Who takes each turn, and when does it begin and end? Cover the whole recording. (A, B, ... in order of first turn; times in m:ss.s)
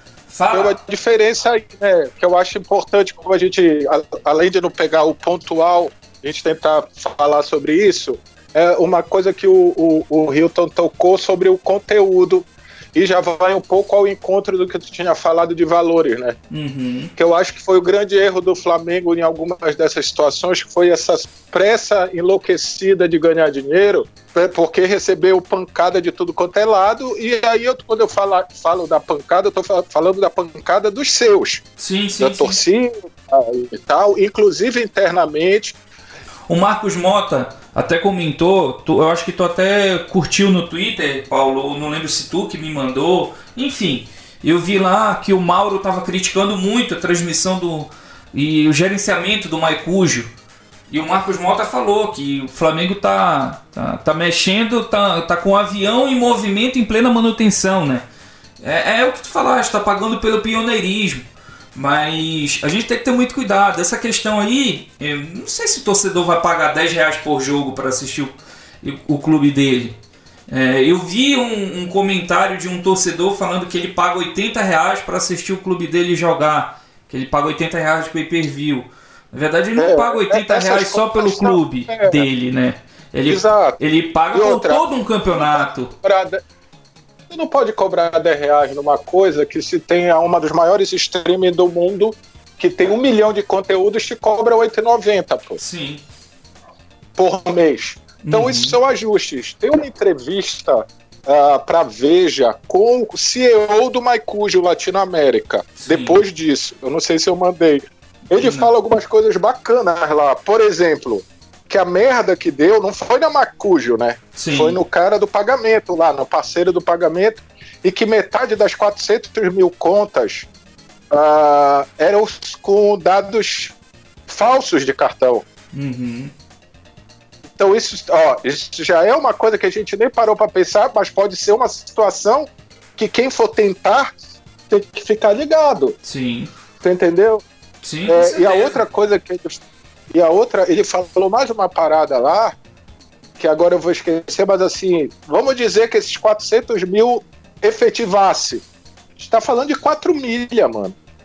0:00.3-0:00.8 A
0:00.5-0:16.4 B
0:16.5-0:17.1 A
0:17.2-0:31.6 B
0:31.8-0:32.6 A
0:32.2-0:35.8 B
0:36.5-0:50.3 A
0:50.9-0:58.0 A
0:58.6-1:10.0 A
1:10.5-1:25.9 A
1:19.8-1:22.3 B
1:23.3-1:23.8 B
1:24.3-1:26.4 B
1:27.3-1:35.6 B
1:35.6-1:36.0 A
1:37.2-2:00.5 B
1:38.2-1:38.8 A
1:45.8-1:46.2 A
1:48.3-1:48.7 A
1:54.4-1:54.8 A
2:01.1-2:03.8 B
2:04.3-2:05.5 B
2:05.7-2:06.3 A
2:07.5-2:14.1 B
2:14.7-2:16.0 B
2:16.0-2:16.5 A
2:16.8-2:17.4 B
2:17.8-2:18.8 A
2:18.0-2:22.6 B
2:23.4-2:28.6 B
2:29.2-2:31.0 B